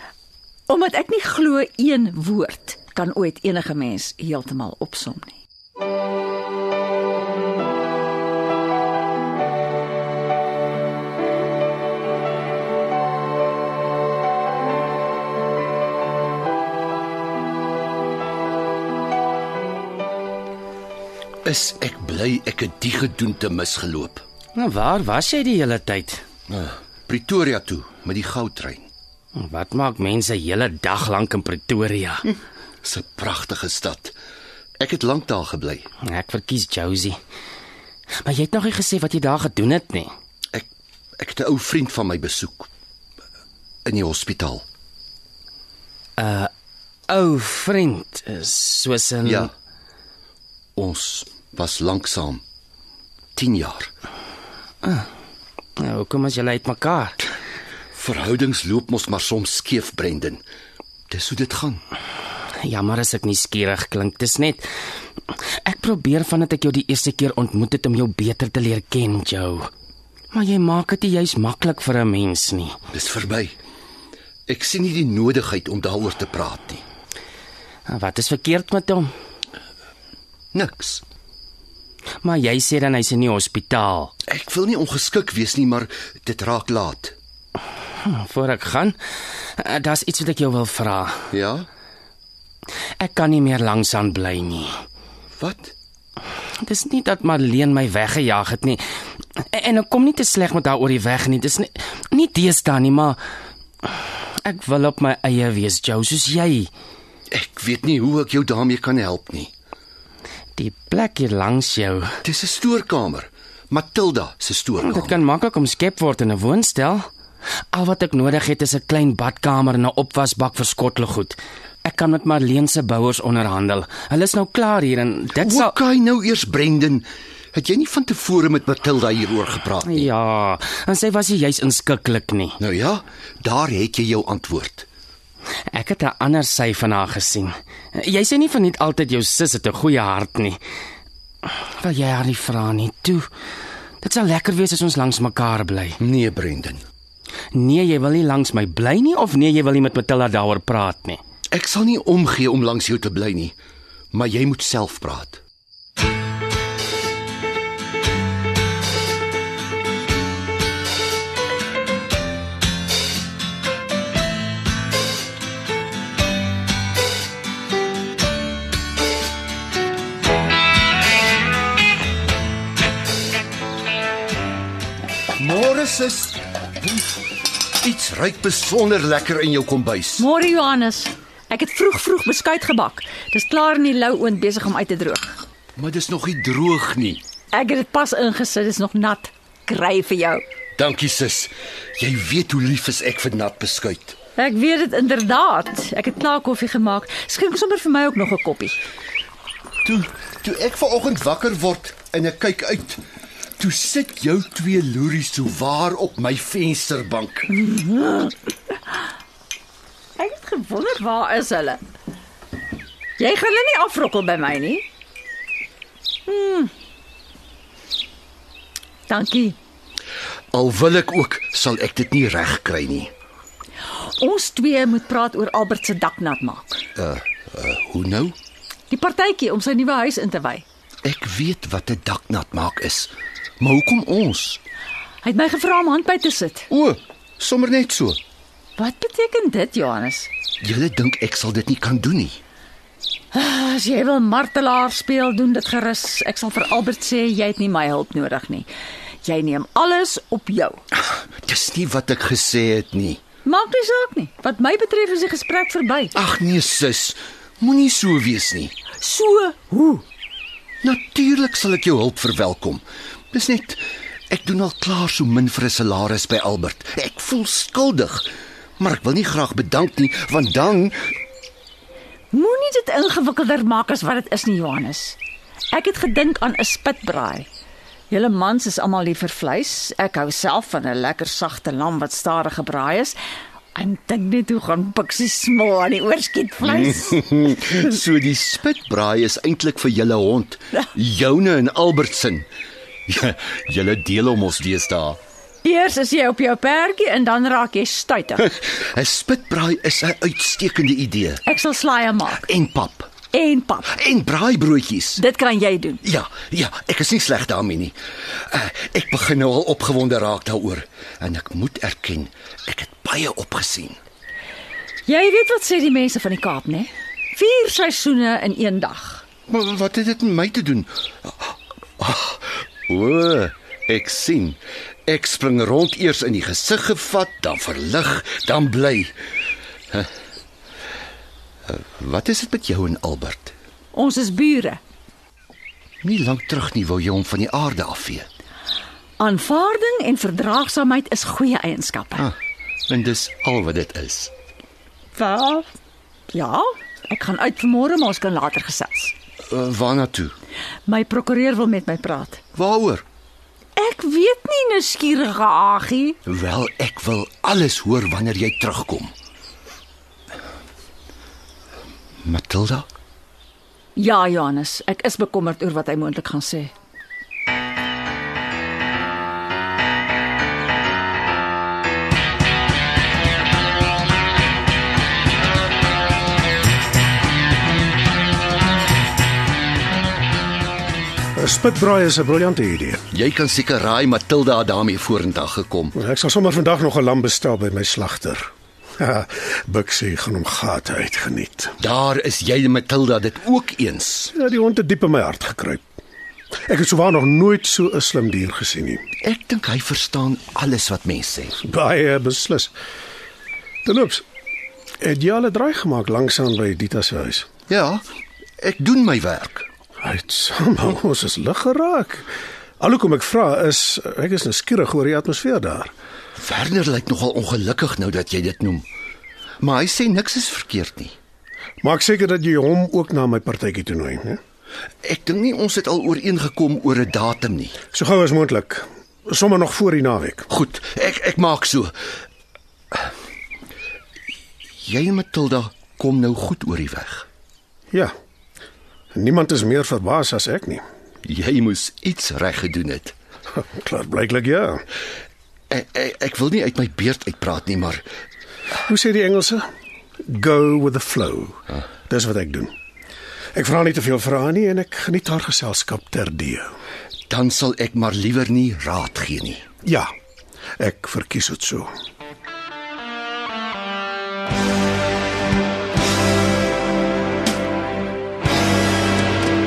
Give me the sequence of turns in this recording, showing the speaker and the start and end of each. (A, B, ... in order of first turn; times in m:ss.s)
0:00.7-0:05.4 A
0:21.4-0:24.2 B
0:24.5-0:26.2 C
0:26.5-0:28.9 B
0:29.3-0:32.2 C
0:32.8-0:34.2 B
0:34.8-0:35.9 B
0:36.0-0:37.2 C
0:38.2-0:40.1 C
0:41.2-0:42.7 B
0:43.8-0:44.6 B
0:46.2-0:46.5 C
0:47.1-0:49.5 C
0:49.2-0:49.5 B
0:50.8-0:52.4 B
0:53.4-0:53.9 B
0:55.8-0:57.2 C
0:57.9-1:00.4 B
1:01.1-1:01.8 B
1:02.6-1:04.7 C
1:05.6-1:09.7 C
1:10.3-1:12.8 C
1:12.9-1:13.5 B
1:14.5-1:16.8 B
1:17.9-1:19.1 C
1:20.5-1:21.0 B
1:22.2-1:24.1 C
1:24.3-1:27.2 B
1:28.0-1:29.0 C
1:29.6-1:31.1 C
1:31.3-1:31.7 B
1:33.0-1:34.7 C
1:35.4-1:35.7 B
1:36.6-1:38.8 C
1:39.5-1:43.2 C
1:44.4-1:46.7 C
1:47.3-1:49.5 B
1:50.6-1:52.1 C
1:52.2-1:55.2 B
1:54.8-1:57.1 C
1:57.7-2:05.8 C
2:05.4-2:10.1 B
2:09.8-2:12.6 C
2:12.6-2:14.8 B
2:15.7-2:20.6 C
2:21.4-2:23.3 C
2:24.0-2:26.0 C
2:26.0-2:26.8 B
2:27.5-2:31.2 C
2:31.5-2:33.6 B
2:34.1-2:35.4 B
2:55.4-2:57.1 B
2:57.8-3:00.3 B
3:00.2-3:05.4 A
3:05.8-3:07.2 B
3:07.5-3:10.4 A
3:10.8-3:14.2 B
3:14.4-3:18.8 A
3:19.8-3:23.0 B
3:23.6-3:27.5 B
3:27.5-3:28.3 A
3:30.2-3:31.8 A
3:33.2-3:34.8 A
3:36.2-3:36.7 A
3:39.1-3:39.6 A
3:40.5-3:43.1 B
3:44.0-3:46.8 A
3:47.0-3:48.4 B
3:48.9-3:50.6 A
3:51.0-3:54.6 B
3:55.2-3:56.7 A
3:56.7-3:58.2 B
3:58.8-4:00.3 A
4:00.6-4:02.4 B
4:03.3-4:08.7 A
4:09.2-4:10.8 A
4:11.1-4:13.2 B
4:13.4-4:16.1 A
4:16.1-4:18.7 B
4:19.0-4:20.0 A
4:20.8-4:28.3 B
4:28.8-4:31.0 B
4:32.3-4:35.2 A
4:35.7-4:37.5 A
4:38.1-4:43.2 A
4:43.7-4:47.4 A
4:46.6-4:52.5 B
4:53.1-4:55.2 B
4:55.6-4:58.5 A
4:58.5-5:01.4 B
5:01.4-5:02.5 A
5:02.4-5:03.1 B
5:03.3-5:04.0 A
5:03.9-5:05.2 B
5:05.2-5:06.0 A
5:06.0-5:08.0 B
5:08.5-5:14.0 B
5:15.0-5:19.2 A
5:19.5-5:29.1 B
5:31.7-5:33.5 B
5:33.9-5:34.8 A
5:36.0-5:38.3 B
5:39.2-5:42.3 A
5:42.9-5:44.3 B
5:45.1-5:45.7 A
5:46.3-5:49.1 A
5:49.5-5:50.3 B
5:50.9-5:52.4 A
5:52.5-5:53.0 B
5:53.8-5:56.2 A
5:56.2-5:59.1 B
6:02.2-6:02.9 B
6:04.0-6:06.7 A
6:21.4-6:23.0 D
6:23.1-6:25.9 B
6:25.9-6:31.8 D
6:31.8-6:34.3 B
6:34.3-6:35.8 D
6:36.6-6:39.0 D
6:39.2-6:41.6 B
6:41.6-6:42.7 D
6:43.8-6:44.2 D
6:45.0-6:47.5 D
6:47.7-6:48.0 B
6:48.6-6:49.6 B
6:50.0-6:55.9 D
6:56.4-6:58.8 B
6:59.6-7:01.2 B
7:01.8-7:04.4 D
7:05.0-7:07.8 B
7:07.9-7:10.5 D
7:10.5-7:11.9 B
7:14.8-7:17.2 B
7:19.1-7:20.8 D
7:21.2-7:23.1 B
7:23.5-7:24.8 D
7:25.7-7:28.0 B
7:28.8-7:29.6 D
7:30.2-7:32.7 D
7:33.5-7:36.7 D
7:37.3-7:39.6 B
7:39.8-7:40.1 D
7:40.8-7:41.9 D